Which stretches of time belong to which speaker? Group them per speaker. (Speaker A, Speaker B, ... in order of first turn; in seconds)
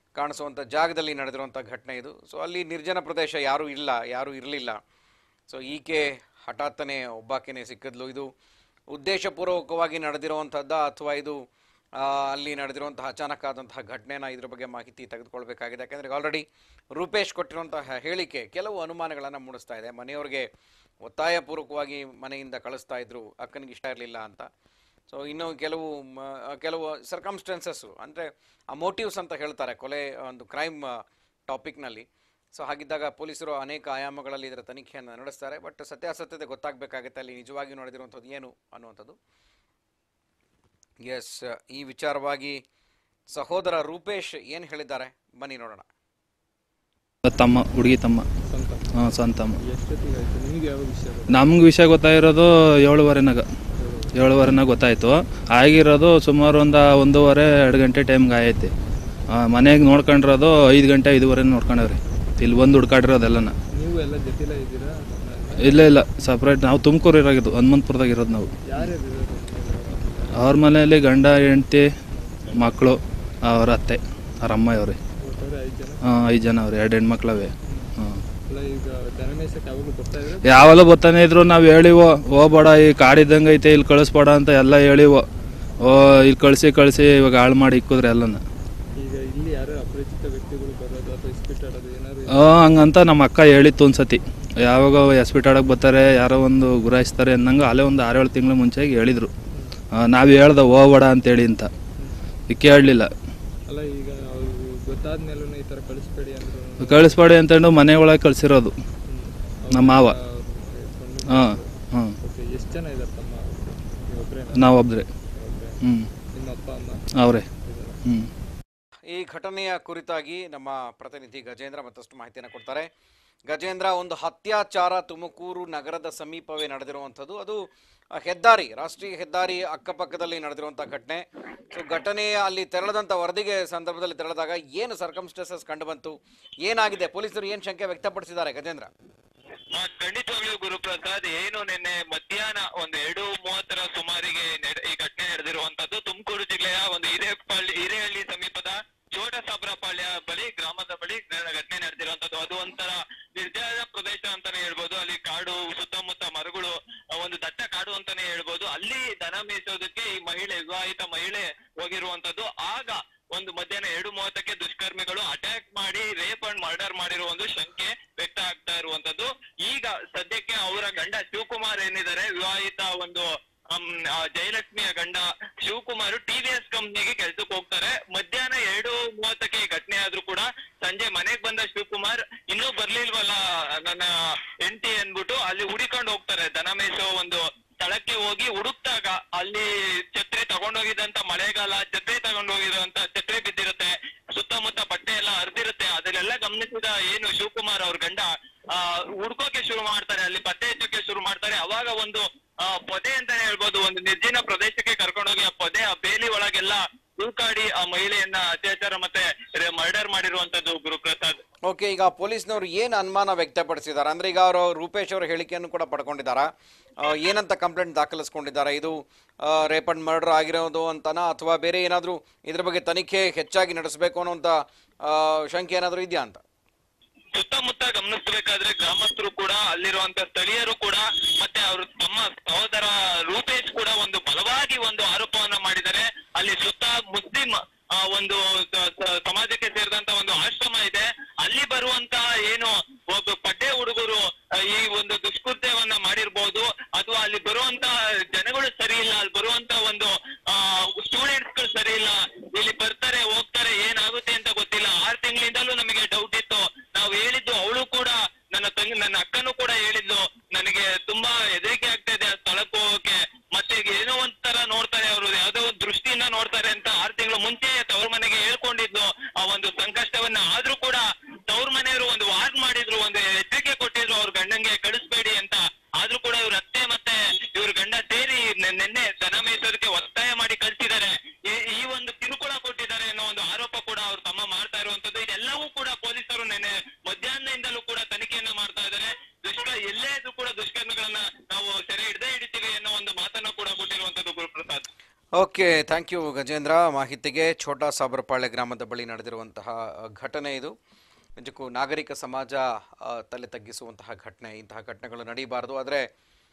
Speaker A: 0.2-4.8, 5.5-8.3, 8.9-11.4, 12.0-20.5, 21.0-24.5, 25.1-39.2, 41.0-42.6, 43.3-45.9, 119.1-122.9, 123.5-138.9, 211.7-226.4, 295.4-300.8, 301.4-306.1
Speaker B: 47.3-48.3, 49.0-49.6, 51.3-53.5, 54.2-58.7, 59.4-63.5, 65.6-68.9, 70.4-71.9, 72.6-75.0, 76.0-78.2, 80.5-85.3, 85.8-88.4, 92.3-99.3, 100.0-101.7, 102.5-103.1, 106.8-108.8, 109.7-110.2, 111.3-112.2, 114.5-115.1, 117.2-117.5
Speaker C: 48.4-48.9, 49.6-51.5, 53.8-54.1, 63.7-65.8, 68.6-70.6, 72.2-72.5, 75.2-76.0, 77.7-77.9, 78.5-80.8, 89.0-92.5, 99.5-99.8, 103.7-107.2, 109.1-114.7, 115.3-115.8, 116.3-118.0
Speaker D: 139.7-211.4, 227.3-294.9